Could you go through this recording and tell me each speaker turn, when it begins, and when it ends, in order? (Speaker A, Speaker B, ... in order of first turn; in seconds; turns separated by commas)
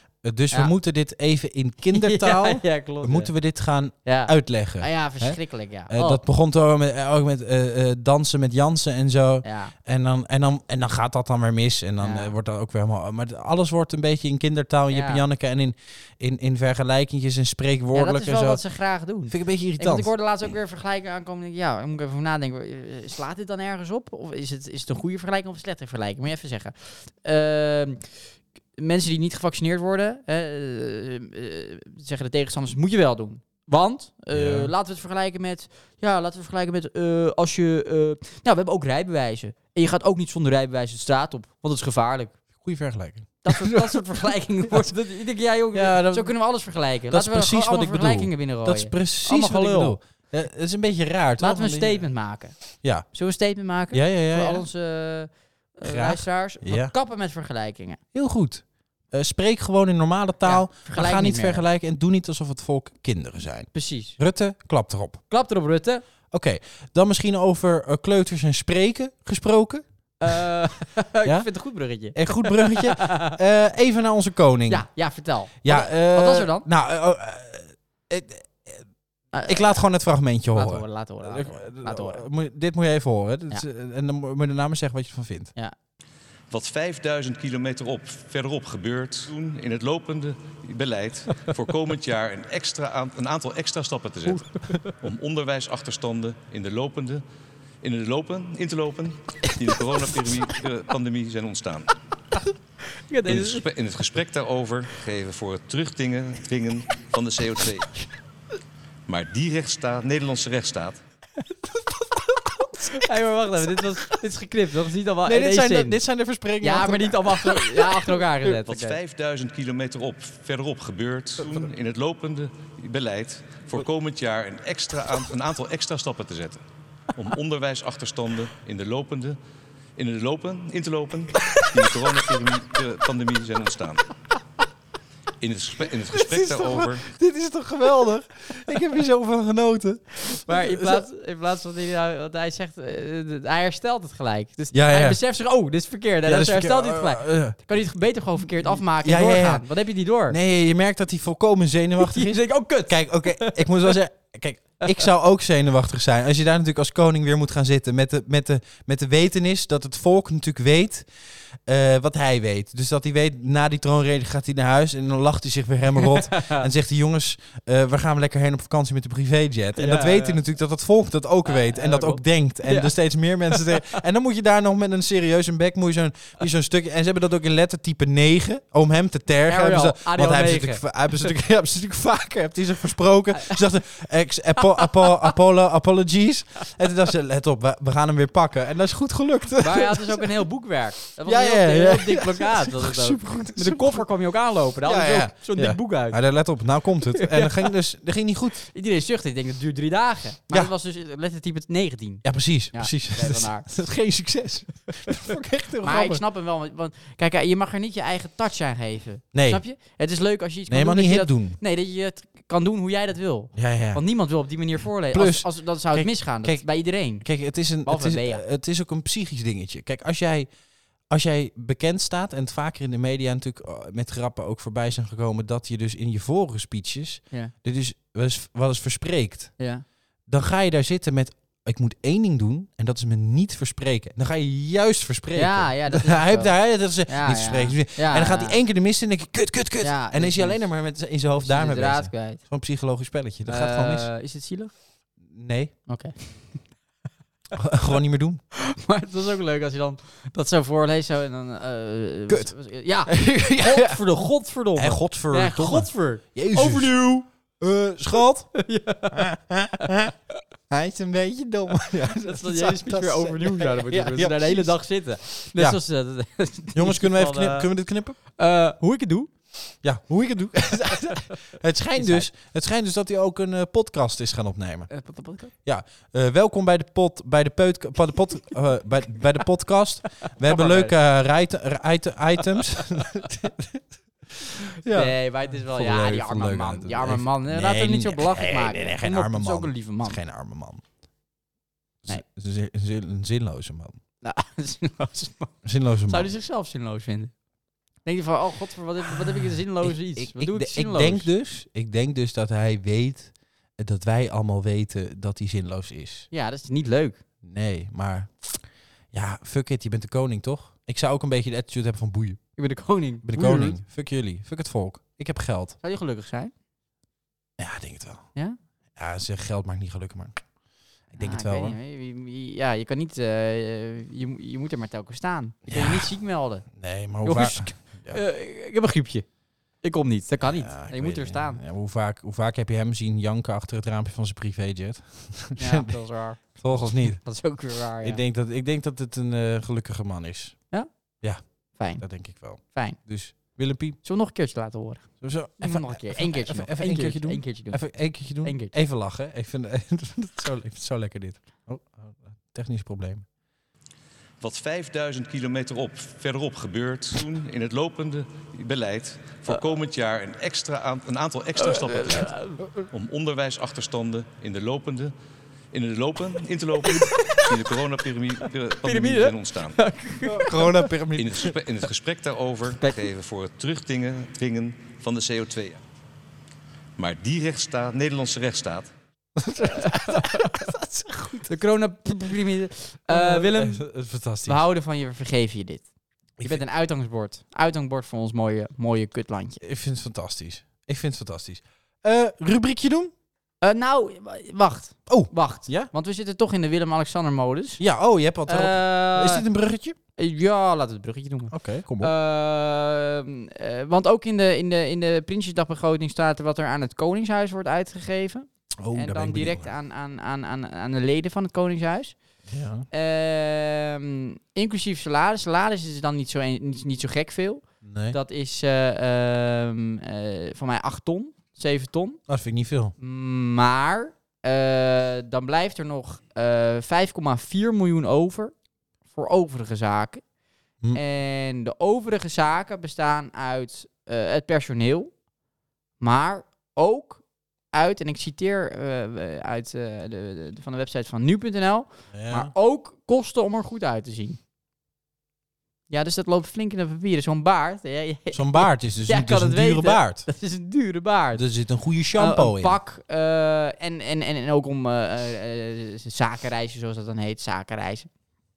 Speaker A: 0.2-18.6, Speaker B: 1.9-3.3, Speaker B: 4.0-6.2, Speaker B: 9.4-9.7, Speaker B: 12.0-12.3, Speaker B: 14.9-15.2, Speaker B: 17.9-42.4, Speaker A: 19.3-20.1, Speaker A: 34.3-34.7, Speaker A: 42.6-44.9, Speaker B: 43.4-50.0, Speaker A: 45.7-46.3, Speaker A: 47.1-52.1, Speaker B: 51.4-58.0, Speaker A: 53.9-54.7, Speaker A: 55.8-56.9, Speaker A: 58.1-65.2, Speaker B: 60.5-61.6, Speaker B: 63.7-64.2, Speaker B: 65.3-66.0, Speaker A: 66.3-70.4, Speaker B: 70.2-73.4, Speaker A: 71.2-71.5, Speaker A: 72.1-74.9, Speaker B: 74.7-76.7, Speaker A: 75.6-78.8, Speaker B: 79.3-79.9, Speaker A: 79.5-85.5, Speaker B: 80.5-82.2, Speaker C: 86.5-97.2, Speaker B: 94.3-95.0, Speaker C: 97.8-101.9, Speaker B: 102.9-103.7, Speaker C: 103.3-107.9, Speaker C: 109.1-111.0, Speaker B: 111.7-116.0, Speaker A: 115.2-118.2, Speaker B: 116.6-119.0, Speaker C: 118.7-129.4, Speaker C: 130.0-134.1, Speaker A: 131.6-131.8, Speaker C: 135.4-137.1, Speaker A: 136.1-141.1, Speaker B: 140.3-150.4, Speaker A: 144.7-145.2, Speaker A: 146.3-147.6, Speaker A: 148.6-149.7, Speaker A: 150.3-190.4, Speaker B: 152.0-153.9, Speaker B: 166.0-166.7, Speaker B: 169.8-170.4, Speaker B: 171.4-174.0, Speaker B: 179.4-180.8, Speaker B: 184.6-185.3, Speaker B: 189.6-196.2, Speaker A: 191.2-194.1, Speaker A: 194.8-198.6, Speaker B: 197.0-197.7, Speaker B: 198.6-203.7, Speaker A: 202.2-206.2, Speaker B: 205.8-217.3, Speaker A: 209.3-209.6, Speaker A: 210.7-211.6, Speaker A: 213.5-214.0, Speaker A: 215.1-220.5, Speaker B: 217.8-218.4, Speaker A: 221.1-229.6, Speaker B: 229.6-229.8, Speaker A: 230.3-244.1, Speaker B: 235.3-238.6, Speaker B: 239.8-240.6, Speaker B: 241.4-242.4, Speaker B: 243.4-244.7, Speaker A: 245.3-245.7, Speaker B: 245.9-246.7, Speaker A: 247.6-248.4, Speaker B: 248.5-257.3, Speaker A: 252.3-254.0, Speaker A: 254.8-257.0, Speaker A: 257.6-260.1, Speaker B: 258.6-259.3, Speaker B: 259.8-260.1, Speaker A: 260.7-264.8, Speaker B: 262.2-267.7, Speaker A: 265.6-265.8, Speaker A: 266.7-268.2, Speaker B: 268.3-269.3, Speaker A: 269.8-274.9, Speaker B: 271.9-272.3, Speaker B: 274.9-275.5, Speaker A: 275.6-283.8, Speaker B: 280.4-280.9, Speaker A: 284.4-290.8, Speaker B: 284.9-290.2, Speaker A: 292.0-294.0, Speaker B: 294.2-297.3, Speaker A: 295.6-296.3, Speaker B: 298.1-301.3, Speaker A: 299.8-306.3, Speaker B: 306.3-307.2, Speaker A: 307.4-312.5, Speaker B: 312.6-313.8, Speaker A: 313.2-315.8, Speaker B: 315.8-316.5, Speaker A: 317.6-318.3, Speaker A: 319.0-320.4, Speaker A: 321.1-321.8, Speaker B: 321.2-326.7, Speaker A: 325.7-326.1, Speaker A: 326.7-328.2, Speaker B: 327.2-329.3, Speaker B: 329.8-331.6, Speaker A: 330.4-336.0, Speaker B: 335.6-338.2, Speaker A: 336.6-337.2, Speaker A: 338.0-340.7, Speaker B: 341.5-342.1, Speaker A: 342.0-344.0, Speaker B: 342.6-343.0, Speaker B: 344.0-348.7, Speaker A: 345.2-353.3, Speaker C: 354.4-362.4, Speaker B: 361.6-362.9, Speaker C: 362.9-365.1, Speaker C: 365.7-369.8, Speaker B: 366.8-367.8, Speaker B: 368.8-370.9, Speaker A: 370.2-371.6, Speaker C: 371.2-375.8, Speaker B: 372.7-373.1, Speaker C: 377.0-378.9, Speaker A: 379.4-381.5, Speaker B: 379.6-380.7, Speaker B: 381.5-383.8, Speaker A: 383.1-384.6, Speaker B: 384.4-385.9, Speaker A: 386.4-386.6, Speaker B: 386.4-389.6, Speaker A: 389.6-393.1, Speaker B: 393.6-397.8, Speaker A: 395.1-395.9, Speaker A: 397.8-400.0, Speaker B: 398.5-399.4, Speaker B: 400.2-412.2, Speaker A: 401.5-402.1, Speaker A: 408.8-409.7, Speaker A: 412.5-412.9, Speaker B: 412.9-422.2, Speaker A: 417.8-418.2, Speaker A: 422.3-422.9, Speaker B: 423.0-428.5, Speaker B: 429.1-430.2, Speaker B: 430.9-435.1, Speaker B: 436.0-444.4, Speaker A: 442.1-442.5, Speaker B: 445.9-451.4, Speaker A: 448.3-450.3, Speaker A: 451.4-452.8, Speaker B: 452.1-458.1